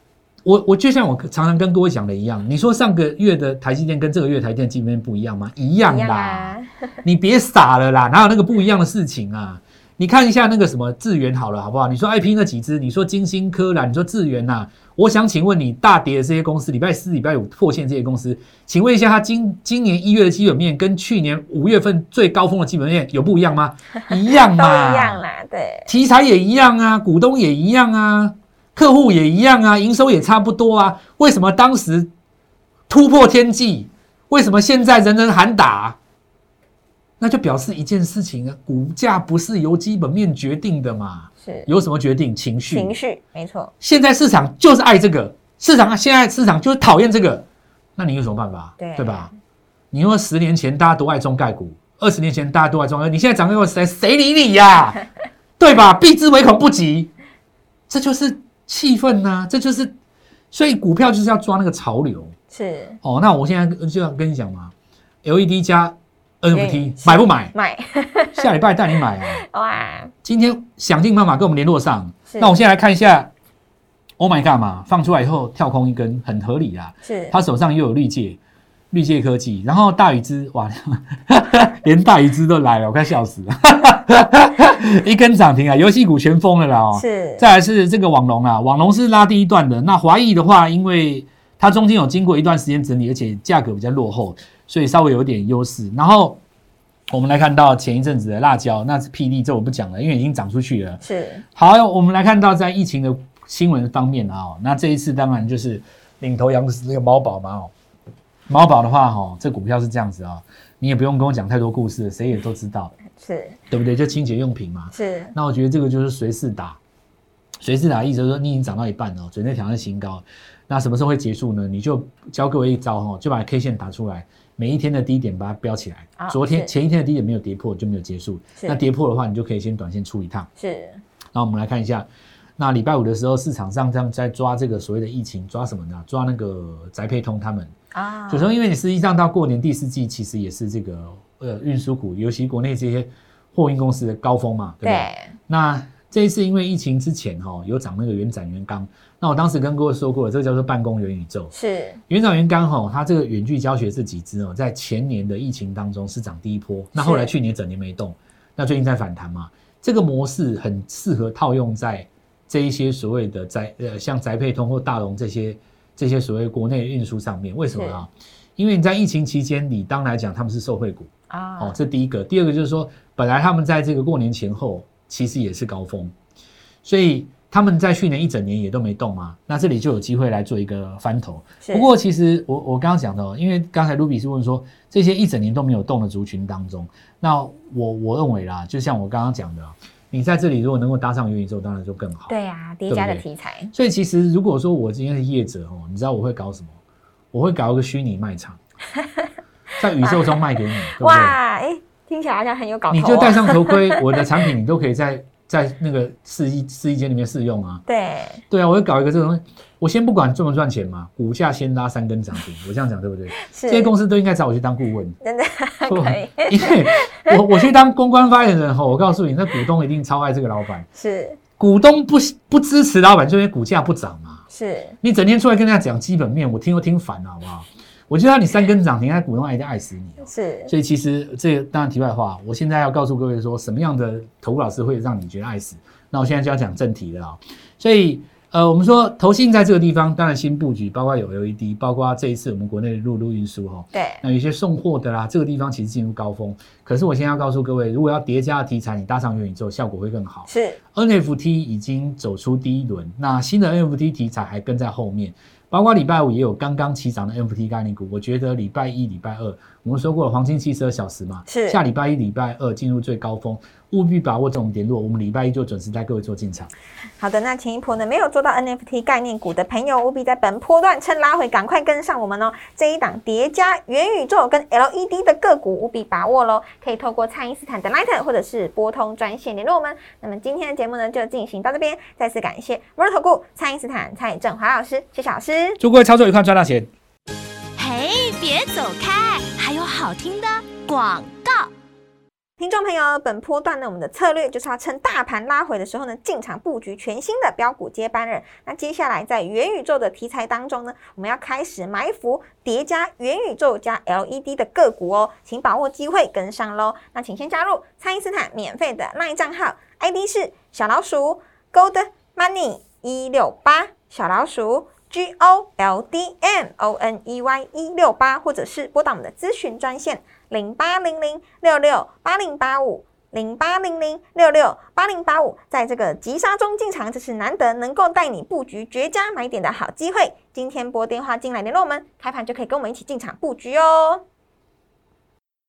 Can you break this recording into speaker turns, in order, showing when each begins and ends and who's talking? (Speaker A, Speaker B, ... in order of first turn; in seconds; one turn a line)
Speaker A: 0.4-25.2
Speaker B: 5.8-6.9
Speaker B: 24.3-25.9
Speaker A: 25.9-32.1
Speaker A: 32.9-36.0
Speaker A: 37.2-43.0
Speaker B: 41.4-41.7
Speaker B: 42.7-43.7
Speaker A: 43.8-47.4
Speaker A: 48.0-49.3
Speaker B: 48.8-49.3
Speaker A: 49.9-55.0
Speaker A: 55.6-57.1
Speaker A: 57.9-59.9
Speaker A: 60.5-62.3
Speaker B: 62.5-63.0
Speaker A: 63.0-64.7
Speaker A: 65.2-67.5
Speaker B: 66.5-68.5
Speaker A: 68.3-69.4
Speaker B: 69.3-70.1
Speaker A: 70.2-73.3
Speaker B: 72.3-72.6
Speaker A: 74.2-78.4
Speaker B: 77.0-77.3
Speaker A: 78.9-96.4
Speaker B: 86.9-87.5
Speaker A: 97.1-101.0
Speaker B: 101.0-101.4
Speaker A: 101.5-107.7
Speaker A: 108.5-112.9
Speaker B: 113.1-113.6
Speaker A: 113.7-116.8
Speaker B: 114.9-115.3
Speaker A: 117.6-130.5
Speaker B: 126.2-126.7
Speaker B: 130.6-131.0
Speaker A: 131.3-137.7
Speaker B: 137.9-138.5
Speaker A: 138.3-151.5
Speaker B: 144.8-145.3
Speaker B: 151.5-152.0
Speaker A: 152.1-176.1
Speaker B: 156.9-157.3
Speaker B: 167.7-168.0
Speaker B: 171.3-171.8
Speaker A: 176.8-192.3
Speaker B: 181.6-181.9
Speaker B: 192.3-193.7
Speaker A: 192.9-196.8
Speaker A: 197.3-198.6
Speaker A: 199.8-201.4
Speaker B: 200.0-200.3
Speaker B: 200.9-203.9
Speaker A: 202.9-207.8
Speaker B: 207.8-208.4
Speaker A: 208.5-215.2
Speaker B: 213.4-213.9
Speaker B: 215.2-217.4
Speaker A: 215.8-220.9
Speaker B: 220.9-221.4
Speaker A: 221.6-224.4
Speaker B: 224.5-225.0
Speaker A: 225.0-266.7
Speaker B: 230.2-230.7
Speaker B: 243.9-244.2
Speaker B: 250.5-250.8
Speaker B: 261.4-261.8
Speaker B: 267.2-285.8
Speaker A: 285.8-286.9
Speaker C: 287.8-291.7
Speaker B: 292.6-334.2